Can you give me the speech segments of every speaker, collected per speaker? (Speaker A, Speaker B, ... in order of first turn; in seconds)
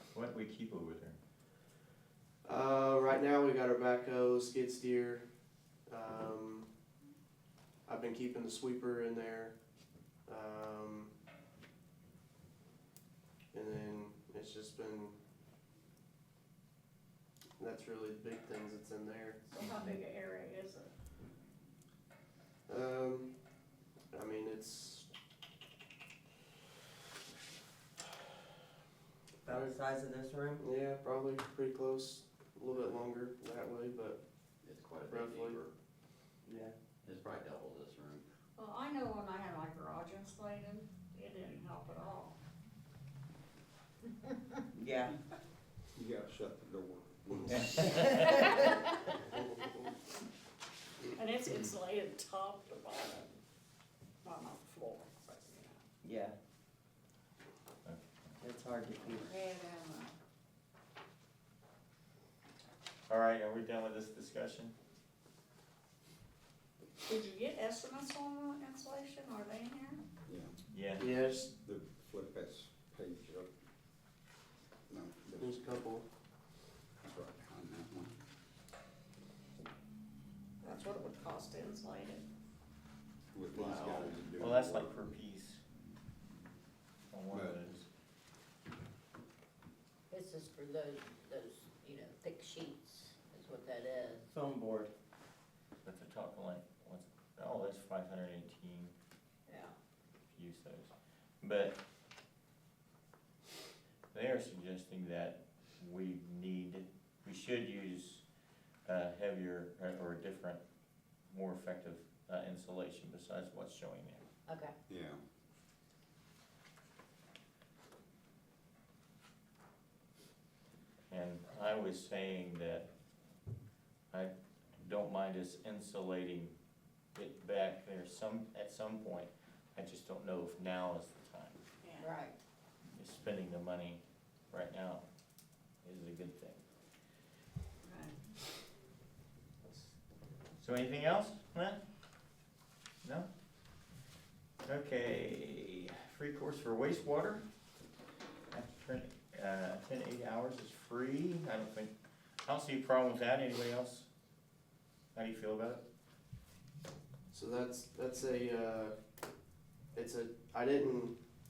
Speaker A: 0.1-1.2, 57.8-58.3, 63.1-64.7, 70.7-71.1, 84.4-85.6, 87.1-87.9, 95.8-98.9, 100.3-101.8, 104.1-108.2, 108.8-110.6, 111.3-114.2, 121.1-122.9, 124.1-126.5, 127.1-131.6, 132.9-134.0, 134.5-135.0, 135.8-136.6, 140.6-141.8, 143.0-143.3, 144.6-147.4, 148.5-151.9, 152.4-154.1, 155.1-155.8
Speaker B: 2.4-5.3, 5.9-6.7, 7.8-9.6, 10.2-11.1, 13.5-15.2, 17.6-19.4, 22.7-23.3, 24.1-25.1, 30.6-34.2, 35.1-35.6, 71.0-71.5, 75.4-76.1, 157.3-159.0, 159.9-161.2
Speaker C: 19.5-20.9, 38.5-42.4, 51.1-53.4, 54.2-55.8, 59.1-60.1, 67.0-70.0, 80.6-82.2, 83.7-84.0, 131.8-132.1, 137.8-138.1
Speaker D: 29.4-30.7, 36.5-36.7, 44.7-45.1, 56.0-56.4, 58.4-59.3
Speaker E: 34.6-35.7, 37.0-38.2, 83.5-84.1
Speaker F: 46.0-48.4, 70.3-70.5, 71.6-73.5, 74.9-75.5, 77.0-78.1, 83.3-85.1, 87.3-87.6, 114.9-115.2
Speaker G: 90.1-94.3, 99.5-99.7, 114.5-114.7, 132.0-132.4